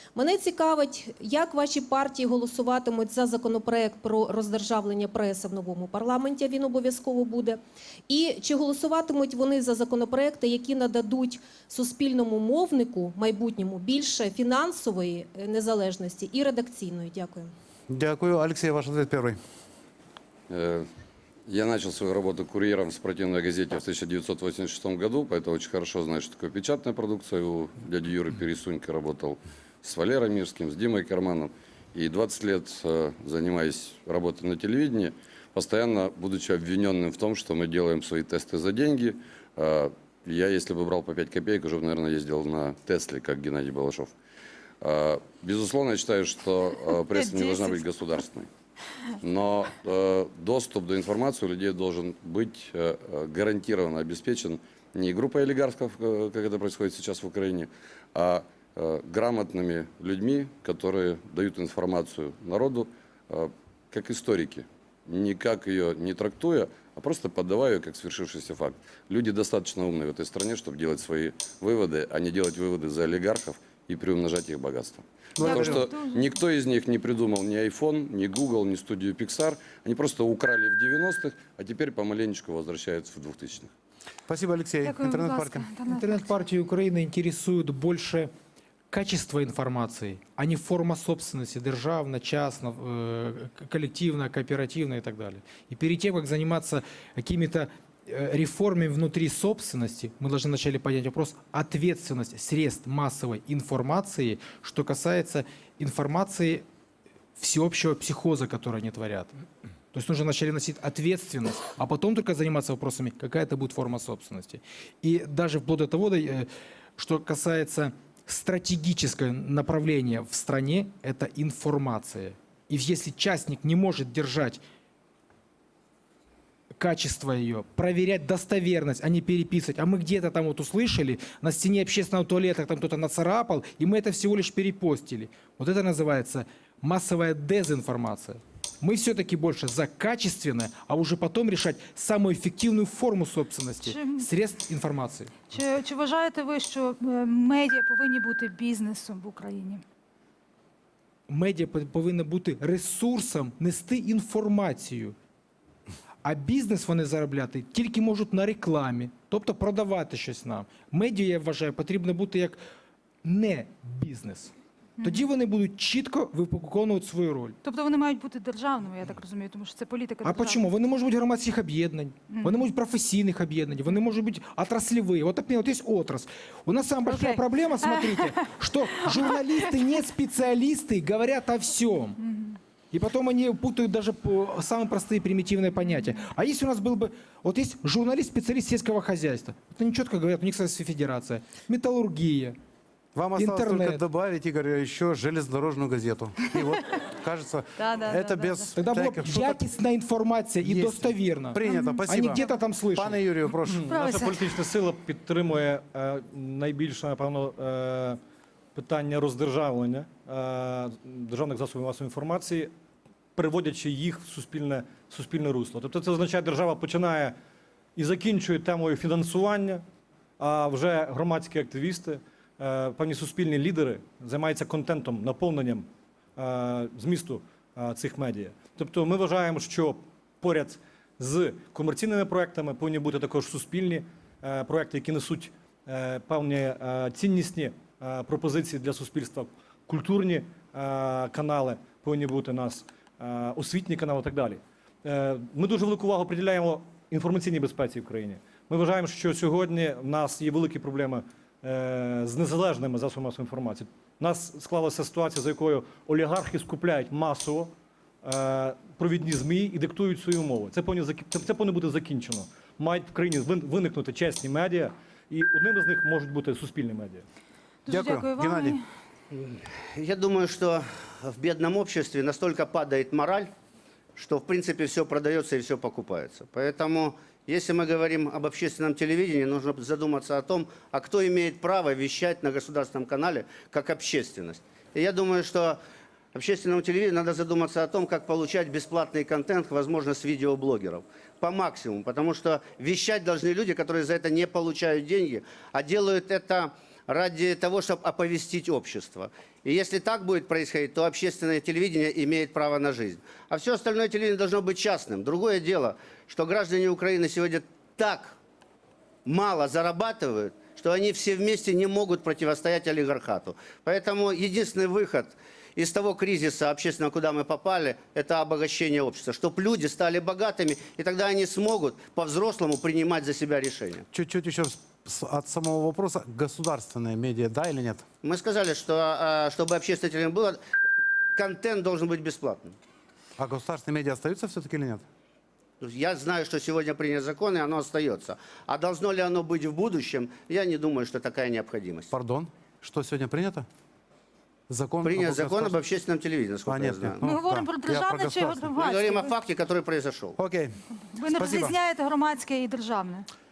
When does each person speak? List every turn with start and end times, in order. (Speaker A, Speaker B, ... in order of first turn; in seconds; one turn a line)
Speaker A: 0.1-17.5
Speaker B: 17.9-19.4
Speaker C: 20.5-20.9
Speaker C: 21.5-44.1
Speaker C: 44.8-48.5
Speaker D: 47.1-47.8
Speaker C: 49.2-83.7
Speaker B: 75.4-75.9
Speaker D: 75.4-76.3
Speaker B: 84.3-85.7
Speaker D: 84.8-86.3
Speaker E: 85.9-88.3
Speaker E: 88.9-106.6
Speaker E: 107.4-109.3
Speaker E: 109.9-124.6
Speaker E: 126.7-145.4
Speaker D: 143.8-144.3
Speaker D: 145.5-149.8
Speaker E: 151.3-155.2
Speaker E: 156.2-162.6
Speaker E: 163.2-167.6
Speaker D: 165.0-165.3
Speaker D: 167.6-170.6
Speaker E: 170.2-182.2
Speaker D: 172.3-172.6
Speaker D: 177.1-178.4
Speaker D: 179.3-179.8
Speaker D: 182.2-182.6
Speaker E: 182.9-192.6
Speaker B: 193.2-199.7
Speaker E: 193.3-194.0
Speaker D: 196.6-197.0
Speaker D: 197.8-198.7
Speaker E: 198.7-203.2
Speaker B: 200.6-204.4
Speaker D: 201.6-202.4
Speaker F: 203.7-208.2
Speaker D: 203.9-204.3
Speaker F: 208.8-212.7
Speaker F: 213.4-217.4
Speaker F: 218.0-219.8
Speaker F: 220.4-225.9
Speaker F: 226.4-257.7
Speaker F: 258.2-267.2
Speaker D: 267.9-268.8
Speaker B: 267.9-268.8
Speaker G: 269.3-273.5
Speaker G: 274.2-285.8
Speaker G: 286.3-308.4
Speaker G: 309.2-324.1
Speaker B: 324.1-328.1
Speaker G: 328.2-330.6
Speaker G: 331.4-332.8
Speaker B: 333.4-335.0
Speaker G: 335.8-342.1
Speaker B: 342.1-343.7
Speaker B: 344.7-345.8
Speaker G: 345.0-347.2
Speaker B: 346.7-348.8
Speaker D: 347.2-349.4
Speaker G: 348.7-350.4
Speaker B: 350.4-351.8
Speaker D: 351.1-353.3